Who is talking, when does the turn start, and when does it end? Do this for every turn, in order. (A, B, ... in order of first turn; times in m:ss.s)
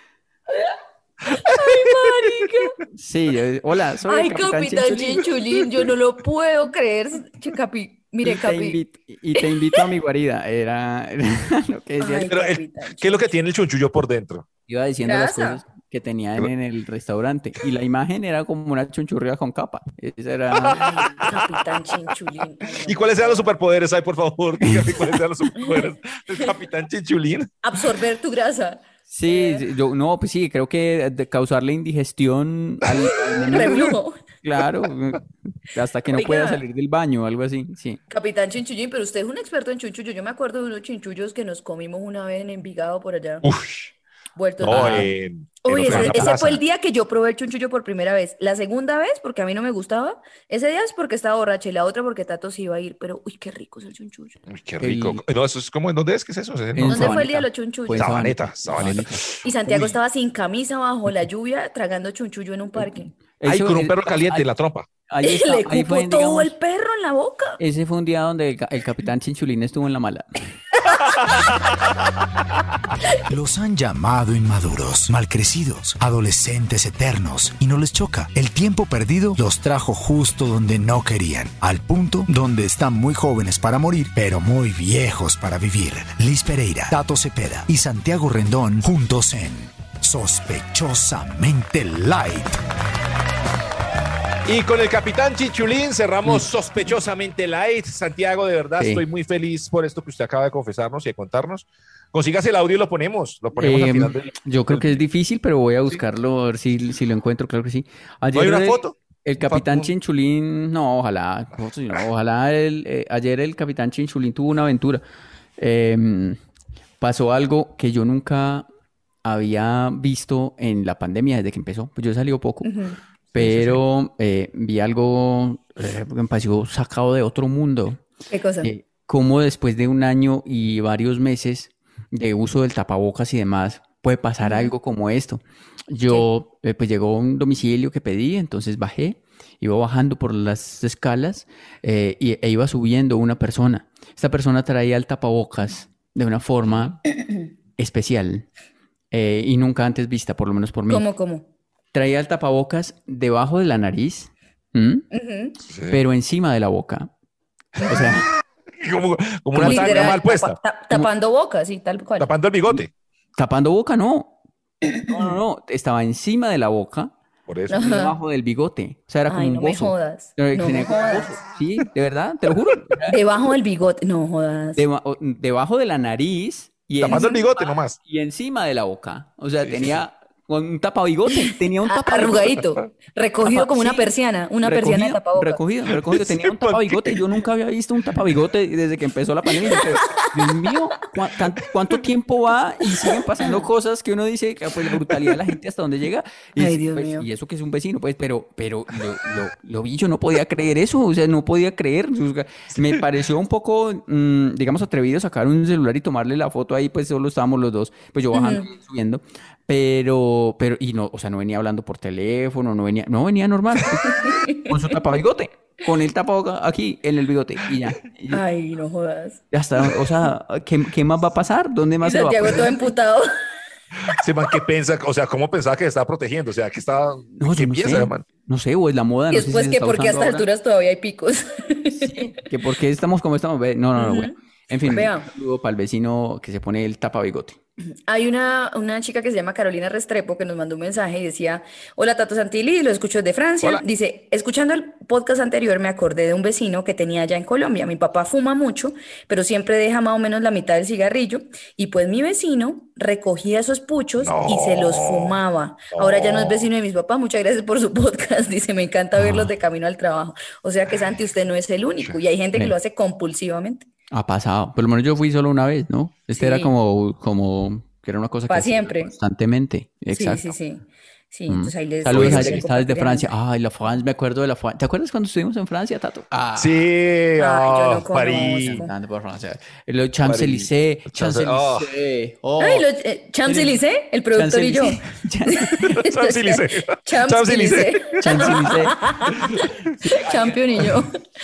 0:00.5-0:02.8 A
0:01.5-0:01.8 B
0:02.9-0:05.3 C
0:04.1-0:08.8 A
0:08.2-0:12.3 C
0:09.4-0:09.8 A
0:12.0-0:13.3 A
0:12.3-0:14.4 B
0:14.7-0:20.9 C
0:15.0-0:15.6 A
0:20.7-0:21.3 B
0:20.7-0:23.5 A
0:22.8-0:27.5 B
0:24.6-0:25.0 C
0:25.6-0:25.9 A
0:27.6-0:29.6 A
0:29.1-0:38.0 C
0:32.9-0:34.2 A
0:36.1-0:36.6 A
0:38.1-0:43.5 A
0:43.4-0:43.9 B
0:44.4-0:45.1 A
0:44.6-0:45.1 C
0:44.6-0:46.6 B
0:45.6-0:54.4 A
0:45.8-0:46.4 C
0:54.5-0:57.2 B
0:54.8-0:55.2 C
0:56.8-0:59.3 C
0:56.9-0:58.1 A
0:57.9-0:59.9 B
0:59.4-1:03.1 A
1:03.4-1:04.4 C
1:03.4-1:04.9 B
1:05.1-1:06.5 C
1:05.2-1:07.6 A
1:07.6-1:10.6 C
1:11.0-1:11.7 B
1:13.3-1:32.6 D
1:34.4-1:45.0 B
1:38.8-1:39.0 C
1:43.6-1:55.0 C
1:48.3-1:49.9 B
1:55.6-1:56.4 C
1:57.0-1:58.7 C
1:59.2-2:02.7 C
2:02.6-2:03.0 A
2:03.3-2:03.8 B
2:03.3-2:08.0 C
2:08.3-2:08.7 A
2:08.6-2:27.0 C
2:14.4-2:14.7 A
2:27.8-2:28.5 C
2:29.1-2:31.0 C
2:30.9-2:31.4 A
2:31.9-2:35.1 C
2:35.1-2:35.6 A
2:35.7-2:36.0 B
2:35.9-2:37.1 C
2:37.8-2:38.3 C
2:38.7-2:41.0 B
2:39.6-2:40.1 C
2:39.6-2:42.3 A
2:42.2-2:42.9 B
2:43.4-2:44.4 C
2:44.9-2:47.1 C
2:47.5-2:47.9 B
2:47.7-2:48.2 A
2:47.7-2:53.2 C
2:49.3-2:51.3 A
2:53.1-2:54.8 A
2:54.8-2:57.3 C
2:57.0-2:58.0 B
2:57.1-2:57.4 A
2:58.0-3:02.6 C
2:59.6-3:00.0 B
3:01.9-3:05.6 A
3:03.4-3:04.1 C
3:04.6-3:38.4 C
3:05.9-3:07.2 B
3:09.6-3:10.3 A
3:13.0-3:13.7 A
3:16.6-3:17.3 A
3:28.3-3:28.7 A
3:34.0-3:34.6 A
3:38.3-3:39.9 A
3:39.5-3:42.8 C
3:42.0-3:43.3 A
3:44.1-3:48.2 B
3:47.4-3:50.5 C
3:49.3-3:52.3 A
3:51.9-3:57.6 C
3:54.0-3:55.3 A
3:58.1-4:23.9 A
4:14.2-4:15.4 B
4:15.9-4:16.7 B
4:19.2-4:19.5 C
4:24.1-4:30.5 C
4:26.4-4:26.7 A
4:28.5-4:29.1 A
4:30.1-4:33.3 A
4:31.5-4:36.8 C
4:32.1-4:32.6 B
4:36.6-4:38.9 B
4:37.4-4:38.9 A
4:38.3-4:42.9 C
4:40.2-4:41.9 B
4:42.6-4:51.1 A
4:43.4-4:43.8 C
4:44.3-4:45.7 C
4:45.8-4:48.6 B
4:48.2-4:49.0 C
4:49.3-4:50.9 B
4:50.0-4:50.5 C